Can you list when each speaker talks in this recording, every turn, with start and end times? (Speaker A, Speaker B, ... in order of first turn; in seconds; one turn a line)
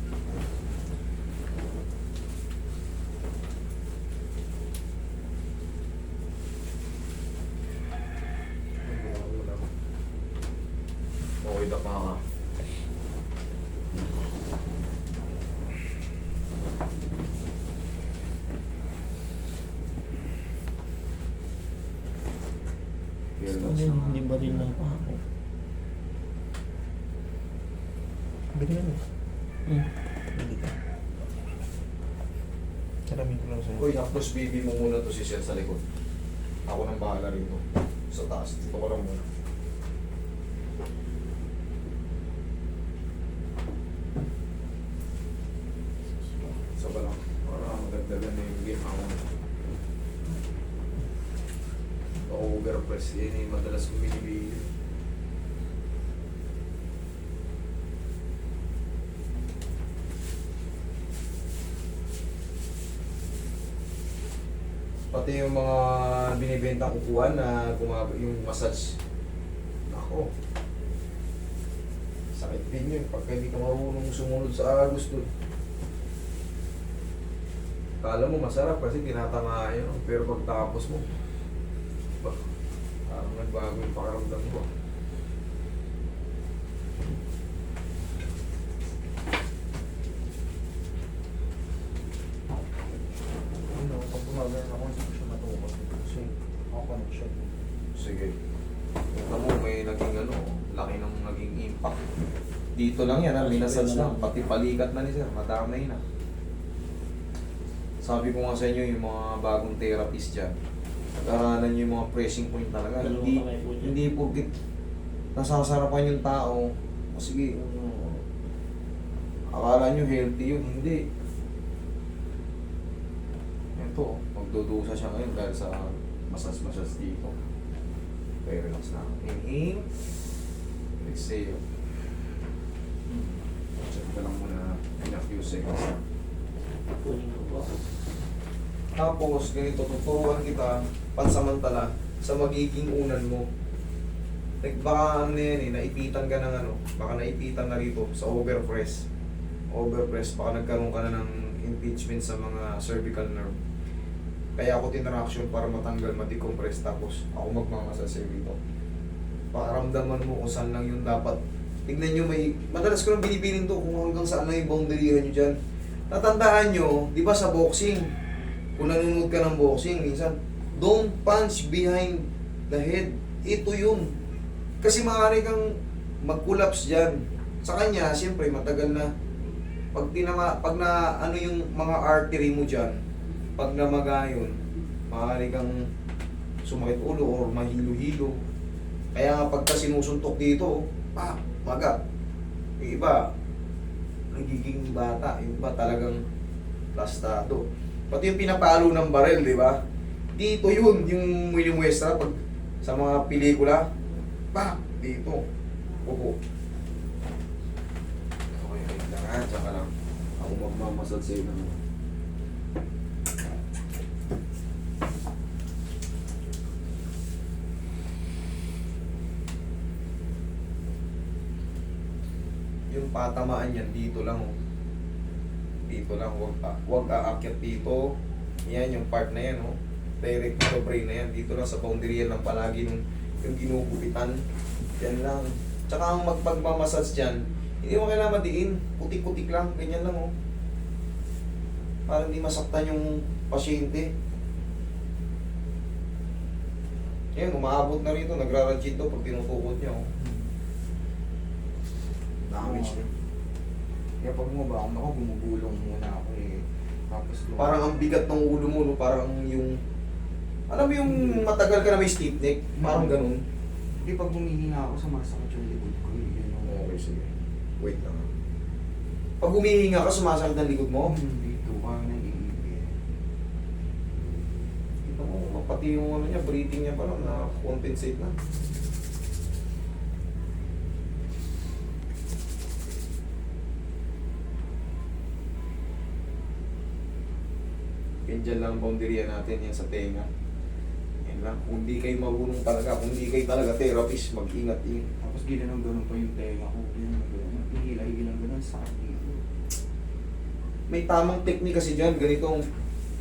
Speaker A: 8.8-9.6
Speaker A: 11.4-12.2
Speaker A: 23.4-24.7
Speaker B: 23.5-25.2
Speaker B: 28.7-28.9
Speaker B: 30.4-30.7
Speaker C: 33.2-33.6
Speaker A: 33.7-35.8
Speaker A: 36.6-39.2
Speaker A: 46.8-49.2
Speaker A: 52.2-54.7
Speaker A: 65.1-69.0
Speaker A: 69.9-70.3
Speaker A: 72.3-75.3
Speaker A: 78.0-81.0
Speaker A: 83.1-84.7
Speaker A: 93.7-96.2
Speaker C: 96.1-97.7
Speaker A: 97.9-98.3
Speaker A: 99.1-102.0
Speaker A: 102.8-106.0
Speaker B: 103.4-104.2
Speaker A: 108.0-110.5
Speaker A: 111.2-114.5
Speaker B: 113.0-114.0
Speaker A: 115.3-118.2
Speaker A: 119.5-121.0
Speaker A: 123.8-127.3
Speaker A: 128.4-129.8
Speaker A: 131.0-131.6
Speaker C: 133.1-133.4
Speaker A: 133.8-136.0
Speaker B: 137.0-137.7
Speaker A: 138.9-143.4
Speaker A: 144.6-149.0
Speaker A: 149.7-153.6
Speaker A: 154.6-158.6
Speaker A: 159.5-165.5
Speaker A: 166.1-168.1
Speaker A: 168.8-174.1
Speaker A: 174.8-175.7
Speaker A: 176.2-179.1
Speaker A: 179.9-182.9
Speaker A: 183.6-184.5
Speaker A: 185.1-185.8
Speaker A: 186.6-188.4
Speaker A: 189.1-192.0
Speaker A: 192.8-193.2
Speaker A: 194.3-196.2
Speaker A: 196.9-199.8
Speaker A: 200.3-203.9
Speaker A: 204.5-205.4
Speaker A: 206.0-206.3
Speaker A: 208.6-211.8
Speaker A: 222.9-224.5
Speaker A: 225.9-234.4
Speaker A: 235.0-240.3
Speaker A: 242.1-244.1
Speaker A: 247.3-250.1
Speaker C: 250.2-250.5
Speaker A: 252.5-253.0
Speaker C: 252.5-253.1
Speaker C: 254.2-258.0
Speaker A: 257.6-259.8
Speaker A: 260.7-263.4
Speaker C: 261.0-261.4
Speaker C: 262.8-263.2
Speaker C: 264.0-266.7
Speaker A: 266.6-268.3
Speaker A: 269.4-271.1
Speaker C: 271.0-272.9
Speaker A: 275.0-278.3
Speaker A: 288.2-290.3
Speaker A: 291.2-295.1
Speaker C: 295.2-299.4
Speaker A: 300.9-302.6